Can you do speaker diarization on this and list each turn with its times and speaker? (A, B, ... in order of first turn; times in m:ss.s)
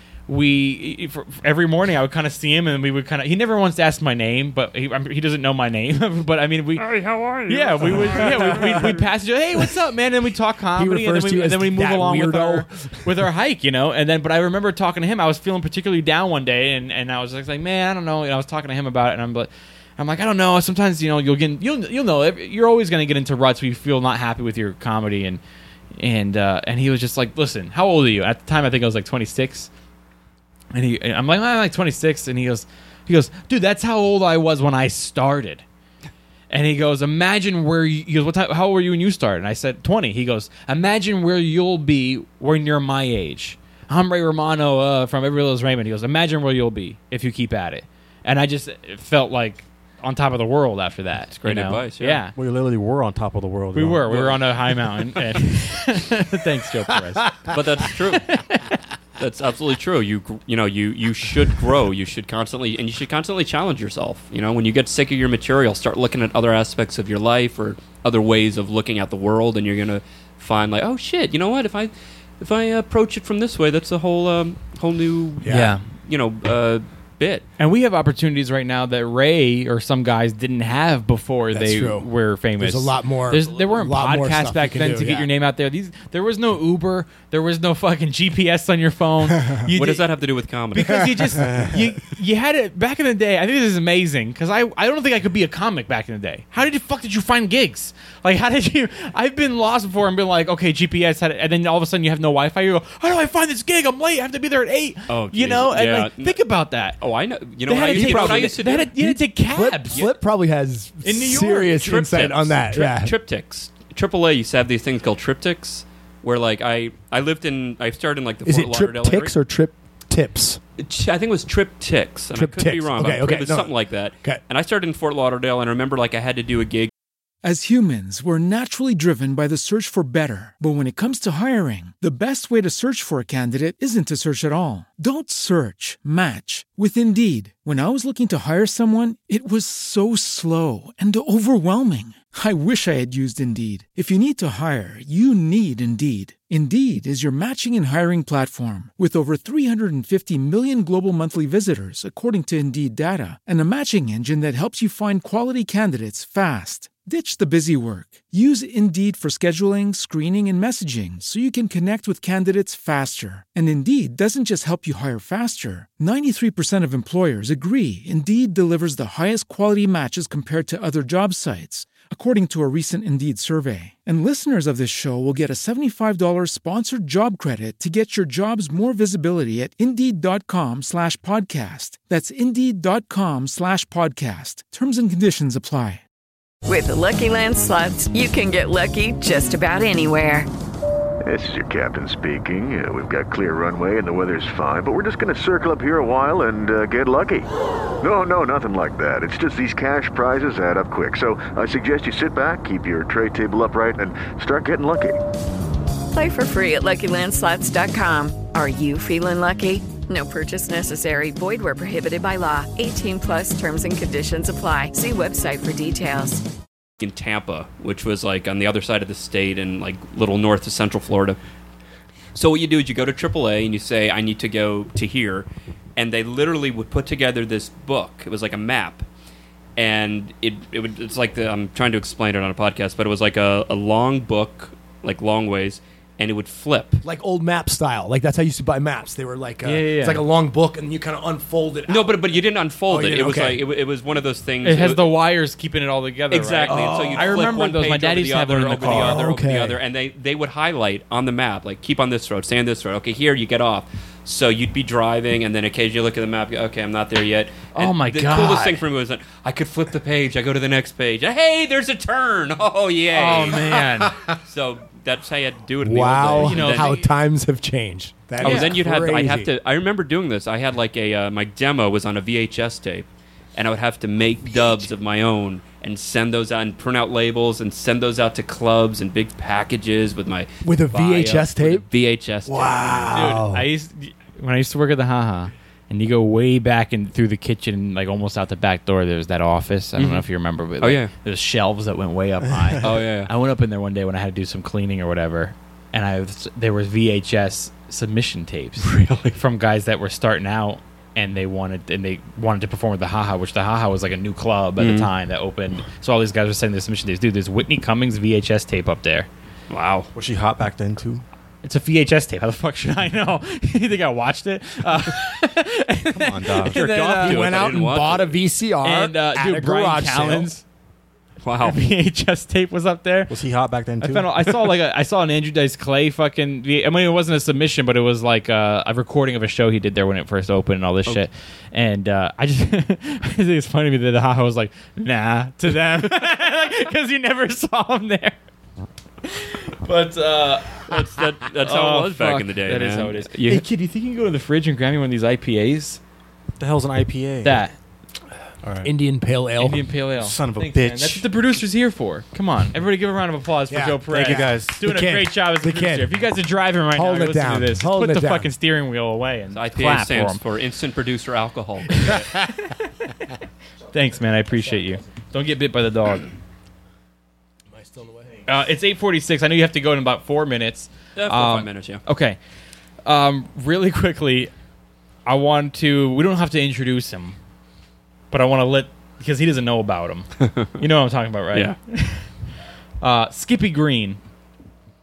0:00.3-0:06.9 A
0:06.8-0:09.0 B
0:07.5-0:25.4 A
0:08.0-0:08.7 C
0:10.8-0:13.3 C
0:26.0-0:29.7 A
0:30.7-0:35.6 A
0:36.5-0:52.4 A
0:51.4-0:52.2 B
0:52.4-0:54.4 D
0:53.7-0:57.6 A
0:57.5-0:58.4 B
0:58.2-0:58.8 A
0:59.2-1:17.4 B
1:15.4-1:15.8 C
1:15.5-1:15.8 A
1:17.6-1:30.1 A
1:21.5-1:25.3 C
1:29.7-1:31.5 B
1:30.7-1:47.0 A
1:30.8-1:31.7 C
1:45.1-1:46.4 B
1:47.0-1:48.9 B
1:47.6-1:50.1 A
1:47.9-1:53.1 C
1:51.0-1:51.9 A
1:51.8-1:59.3 B
1:58.5-2:00.6 C
2:00.8-2:06.9 B
2:02.4-2:04.4 C
2:07.4-3:06.0 E
3:06.7-3:10.5 F
3:11.2-3:17.5 G
3:18.0-3:25.2 G
3:26.1-3:36.4 F
3:37.0-3:41.4 B
3:42.4-3:49.0 B
3:49.8-3:57.0 B
3:57.0-4:02.3 C
3:59.6-4:00.3 A
4:01.9-4:05.1 B
4:02.9-4:03.7 C
4:04.6-4:09.4 A
4:06.3-4:26.9 B
4:06.7-4:07.6 C
4:08.8-4:09.8 C
4:17.7-4:18.8 A
4:23.1-4:24.2 A
4:25.8-4:29.5 C
4:26.3-4:27.1 A
4:28.4-4:43.4 B
4:28.4-4:28.8 A
4:40.6-4:41.8 C
4:42.5-4:43.7 C
4:43.1-5:09.3 A
4:50.0-4:50.2 B
4:50.8-4:51.1 B
4:52.8-4:53.3 B
4:58.9-4:59.3 B
5:04.8-5:05.1 B
5:09.7-5:10.1 B
5:10.1-5:11.2 D
5:11.6-5:17.6 A
5:16.1-5:16.8 D
5:16.6-5:18.4 B
5:17.2-5:20.6 C
5:18.8-5:20.6 A
5:21.4-5:21.8 B
5:21.6-5:23.3 A
5:23.3-5:24.3 D
5:24.0-5:38.4 A
5:39.2-5:41.1 A
5:40.9-5:43.6 B
5:41.6-5:46.0 A
5:46.6-5:47.6 D
5:47.4-5:47.8 A
5:48.6-5:48.9 D
5:48.8-5:49.9 C
5:49.6-6:00.4 A
5:50.2-5:51.3 D
5:53.7-5:56.3 C
5:54.2-5:54.8 D
5:56.9-5:58.5 C
5:59.5-6:02.2 B
6:02.0-6:02.8 A
6:03.9-6:06.3 A
6:07.7-6:08.5 C
6:08.5-6:12.4 A
6:11.2-6:12.0 B
6:13.0-6:14.5 A
6:15.3-6:17.4 A
6:18.3-6:20.3 A
6:20.8-6:22.2 A
6:23.0-6:24.2 A